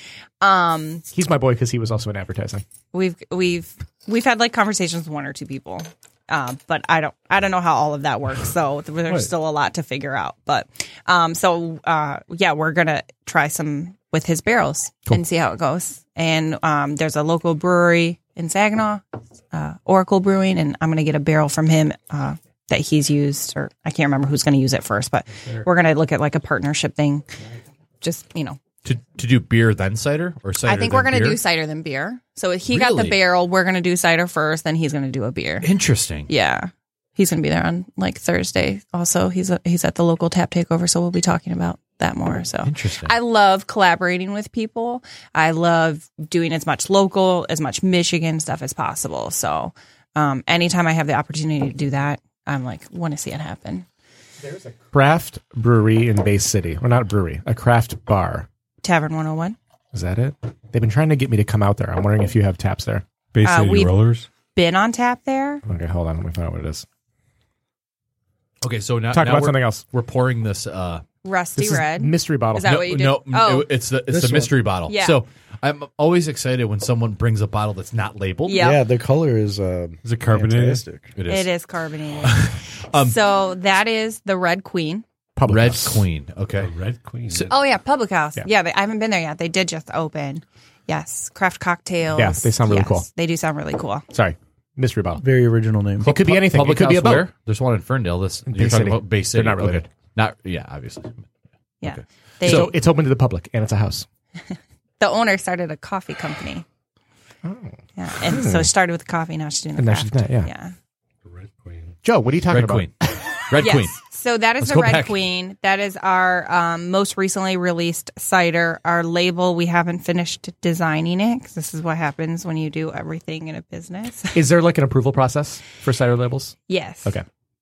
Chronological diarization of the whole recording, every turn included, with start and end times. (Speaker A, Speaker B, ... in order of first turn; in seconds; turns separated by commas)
Speaker A: 0.4-1.1, Speaker B: 1.1-2.6, Speaker A: 2.9-27.3, Speaker A: 28.0-28.6, Speaker C: 28.8-31.4, Speaker A: 30.6-35.7, Speaker C: 32.7-33.2, Speaker C: 35.6-36.3, Speaker A: 36.3-53.9, Speaker C: 42.6-43.1, Speaker B: 54.4-58.5, Speaker A: 58.8-59.6, Speaker B: 59.9-63.0, Speaker D: 63.3-64.3, Speaker A: 63.4-63.9, Speaker A: 64.5-65.6, Speaker B: 65.7-66.9, Speaker C: 68.6-71.0, Speaker B: 69.1-69.8, Speaker A: 71.2-73.7, Speaker B: 71.6-72.7, Speaker C: 72.6-78.7, Speaker E: 74.1-74.5, Speaker A: 74.9-75.2, Speaker A: 78.5-78.8, Speaker E: 78.5-81.2, Speaker D: 80.0-80.8, Speaker C: 81.2-81.5, Speaker A: 81.3-85.0, Speaker C: 82.2-83.2, Speaker B: 85.4-86.0, Speaker C: 85.5-86.7, Speaker D: 86.6-87.5, Speaker A: 87.5-94.1, Speaker B: 92.1-93.1, Speaker B: 94.1-95.2, Speaker E: 95.2-96.1, Speaker C: 96.0-101.3, Speaker B: 96.0-97.3, Speaker B: 98.5-99.9, Speaker A: 101.8-102.7, Speaker C: 102.4-102.7, Speaker B: 102.5-104.1, Speaker A: 105.0-106.7, Speaker B: 107.5-107.7, Speaker A: 108.0-110.7, Speaker B: 108.3-108.7, Speaker B: 109.8-110.5, Speaker D: 111.2-112.0, Speaker B: 112.0-113.3, Speaker C: 112.5-114.0, Speaker A: 113.6-124.4, Speaker C: 114.6-115.2, Speaker B: 124.3-127.2, Speaker A: 126.7-127.2